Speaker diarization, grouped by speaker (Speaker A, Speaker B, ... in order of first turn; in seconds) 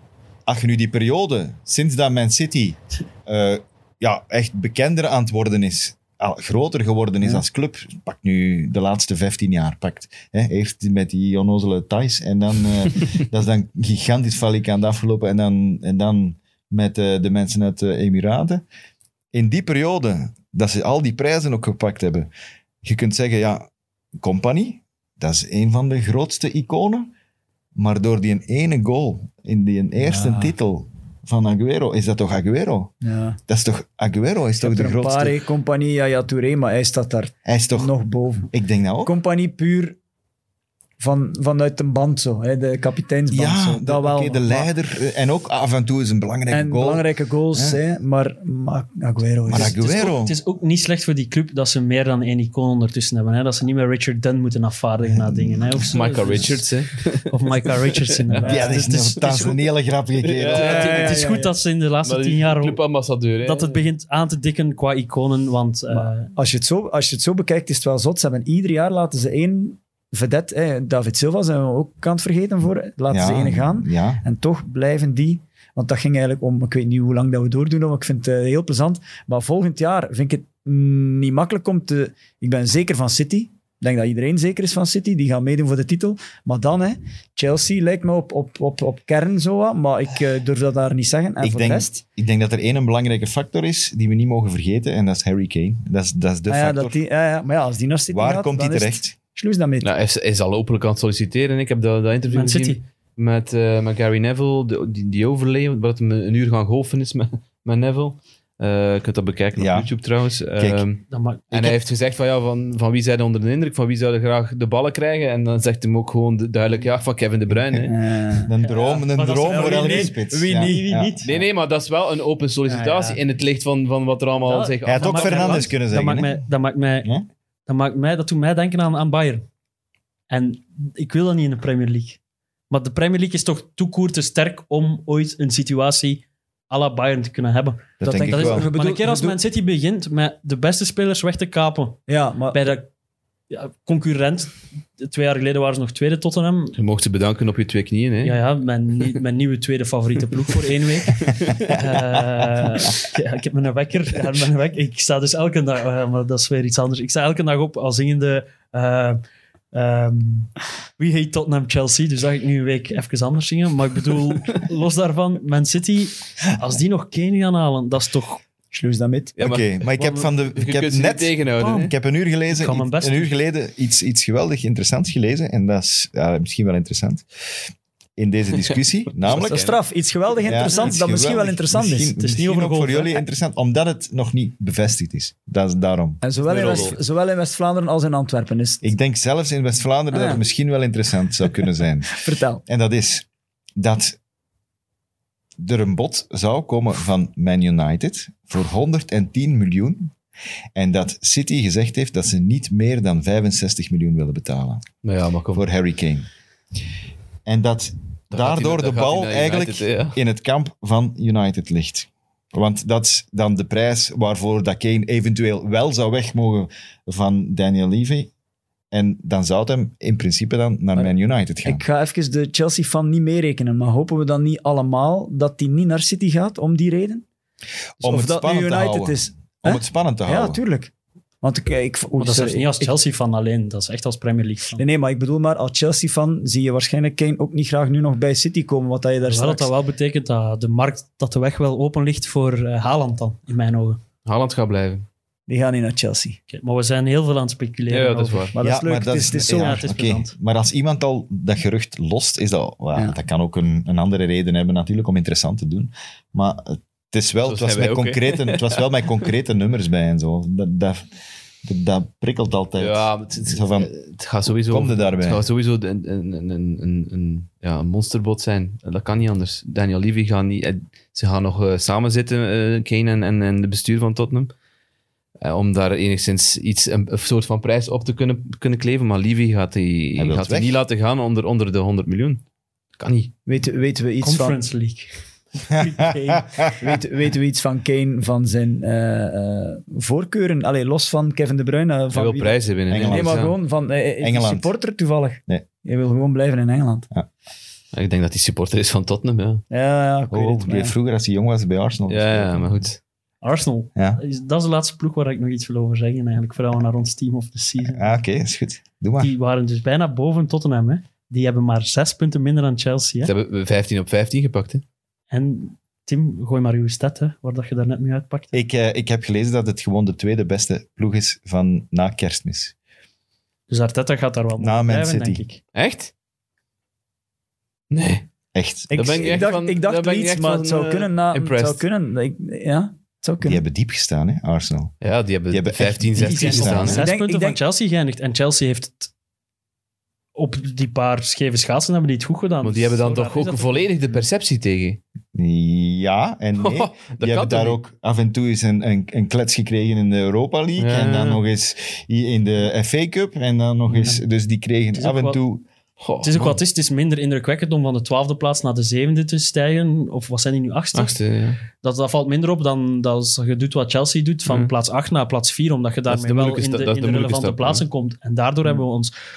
Speaker A: 0.5-18.6, 19.3-22.3, 22.8-27.1, 27.8-32.9, 33.5-35.4, 37.5-37.9, 38.5-39.1, 43.3-47.8, 49.5-50.4, 55.1-55.9, 58.4-60.8, 73.1-74.2, 91.4-97.0, 98.1-99.1, 109.6-109.9, 110.6-110.8, 111.5-111.8, 117.7-121.4, 124.8-126.4, 138.0-138.7, 169.4-177.2, 178.2-179.6, 180.4-186.9, 188.8-193.2, 193.8-194.2, 195.6-200.1, 200.7-204.8, 205.5-206.3, 207.4-218.3, 218.9-221.8, 228.0-230.6, 248.6-261.0, 261.6-263.9, 264.7-265.4, 280.2-280.8, 285.8-286.8, 292.9-293.5, 294.2-294.7, 300.3-302.8, 303.9-304.2, 307.8-309.3, 318.5-322.7, 324.6-325.4, 328.5-329.2, 333.4-335.0, 335.5-337.0, 345.3-355.6
Speaker B: 30.0-30.5, 33.0-33.4, 34.6-38.5, 39.0-40.0, 41.0-44.7, 46.5-49.8, 58.4-58.8, 60.5-61.5, 65.9-92.0, 96.5-99.9, 117.8-118.5, 119.5-120.7, 138.0-139.4, 142.1-142.6, 168.7-169.3, 179.3-182.2, 186.2-188.9, 190.1-190.4, 192.1-192.6, 220.9-227.2, 228.0-232.9, 234.8-239.7, 245.5-246.4, 248.5-249.8, 283.4-284.6, 286.8-297.1, 299.7-300.9, 328.9-333.6, 336.7-337.6
Speaker C: 49.5-56.6, 57.3-59.5, 60.5-62.8, 63.4-66.3, 102.3-102.8, 111.1-111.4, 118.6-121.3, 122.7-123.2, 124.4-127.1, 127.7-129.4, 130.3-132.2, 132.7-142.9, 143.5-146.8, 148.2-159.2, 159.7-168.4, 172.5-173.3, 182.2-183.2, 232.2-234.8, 239.3-244.0, 246.5-248.6, 249.5-250.3, 284.2-286.6, 303.4-308.2, 309.2-313.3, 315.3-318.5, 323.7-325.6, 336.2-339.1, 340.3-343.8, 354.9-355.4, 356.2-361.2, 361.8-369.1
Speaker D: 55.9-58.5, 60.2-61.2, 62.0-63.8, 99.8-117.9, 121.2-125.6, 146.8-148.4, 169.4-171.9, 179.2-179.8, 186.4-187.0, 205.0-205.6, 208.3-210.2, 244.2-245.1, 247.9-248.5, 257.4-258.8, 262.8-274.5, 275.4-282.4, 283.0-283.3, 292.1-293.5, 297.9-299.6, 302.1-303.0, 313.2-314.8, 325.7-326.1, 327.9-328.2, 328.9-331.8, 335.0-337.1, 342.6-345.0, 346.6-347.8, 350.8-351.4, 356.0-356.6, 360.9-361.6, 364.5-364.7, 366.1-367.8